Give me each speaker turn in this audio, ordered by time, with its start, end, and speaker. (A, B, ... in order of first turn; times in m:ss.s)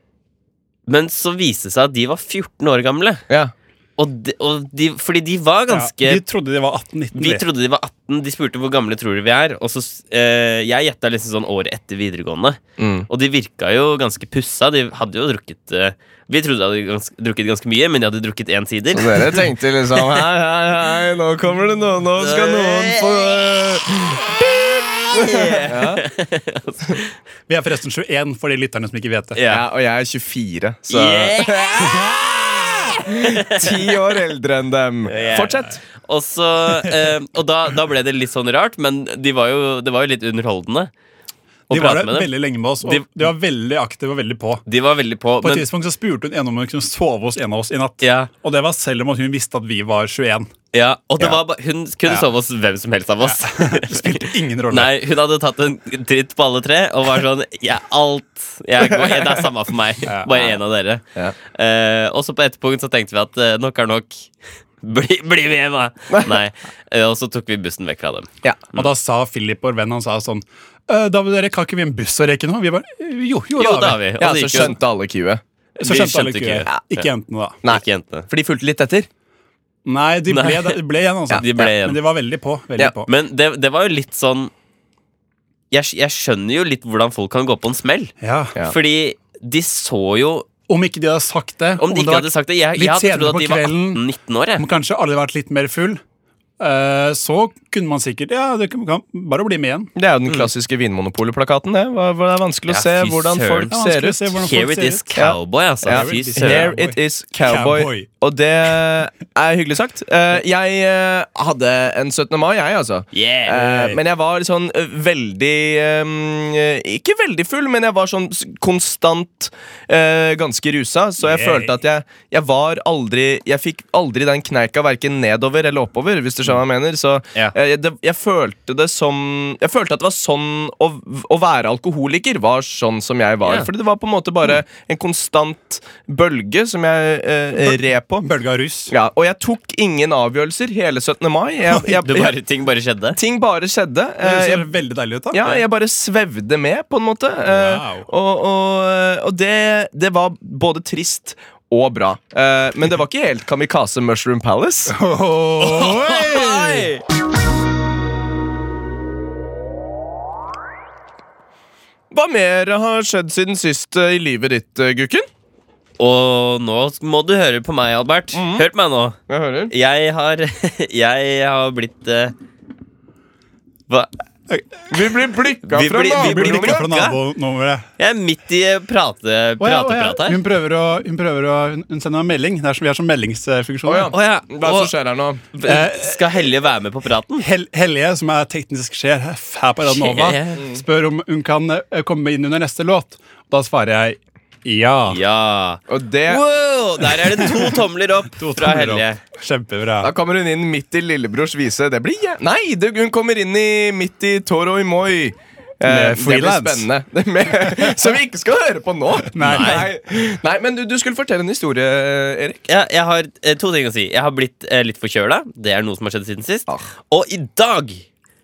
0:00.9-0:03.2 A
0:04.0-0:06.2 A
0:05.7-0:07.4 B
0:07.2-0:19.4 A
0:12.8-0:13.1 C
0:18.9-0:24.3 C
0:22.2-0:23.8 A
0:24.4-0:27.1 A
0:25.1-0:26.0 C
0:27.5-0:29.4 B
0:29.3-0:29.6 A
0:29.5-0:32.0 C
0:30.9-0:32.0 A
0:31.8-0:32.9 B
0:33.0-0:33.8 A
0:33.4-0:35.8 C
0:35.1-0:40.9 A
0:35.4-0:35.7 B
0:36.7-0:37.1 B
0:41.7-0:42.3 A
0:41.7-0:44.6 B
0:42.8-0:43.3 A
0:44.7-0:45.6 A
0:45.4-0:50.5 B
0:48.0-0:48.3 A
0:50.7-1:04.3 A
0:53.2-0:55.0 B
1:00.0-1:00.3 B
1:04.8-1:08.8 A
1:06.1-1:06.4 C
1:08.7-1:14.0 B
1:13.6-1:14.7 A
1:14.2-1:15.4 C
1:15.8-1:17.6 B
1:15.8-1:17.0 A
1:17.6-1:19.1 C
1:17.6-1:18.3 A
1:19.8-1:23.1 B
1:20.3-1:20.8 A
1:21.3-1:22.0 A
1:23.0-1:24.5 A
1:25.7-1:28.1 A
1:28.2-1:28.5 B
1:28.6-1:30.5 A
1:30.7-1:34.0 B
1:31.8-1:34.6 A
1:34.6-1:36.0 B
1:36.6-1:39.9 B
1:40.0-1:44.2 C
1:42.7-1:43.7 A
1:43.7-1:45.1 B
1:44.3-1:46.7 A
1:45.2-2:18.3 C
1:45.8-1:48.1 B
1:53.1-1:53.7 A
1:53.6-1:54.0 B
2:01.2-2:01.7 B
2:13.4-2:13.7 A
2:17.6-2:18.9 B
2:18.9-2:22.3 C
2:21.7-2:22.0 B
2:22.0-2:23.2 A
2:23.2-2:24.7 C
2:24.2-2:25.5 B
2:25.3-2:34.9 C
2:27.4-2:28.1 B
2:34.9-2:36.9 B
2:35.6-2:37.0 A
2:42.1-2:45.3 C
2:46.0-2:49.2 A
2:48.3-2:48.6 C
2:49.3-2:49.7 C
2:49.7-2:52.3 A
2:54.5-2:55.0 B
2:54.9-2:56.8 C
2:55.6-2:57.2 A
2:56.1-2:57.9 B
2:58.0-3:00.4 A
2:59.6-3:04.1 B
3:03.8-3:05.5 C
3:04.1-3:04.9 A
3:05.5-3:07.5 A
3:05.6-3:06.5 B
3:07.4-3:15.2 B
3:09.8-3:10.6 A
3:15.1-3:19.2 A
3:15.9-3:16.4 C
3:18.3-3:20.1 B
3:20.0-3:32.6 C
3:25.8-3:26.9 B
3:27.7-3:28.0 B
3:29.2-3:29.9 B
3:29.4-3:29.8 A
3:32.7-3:38.0 A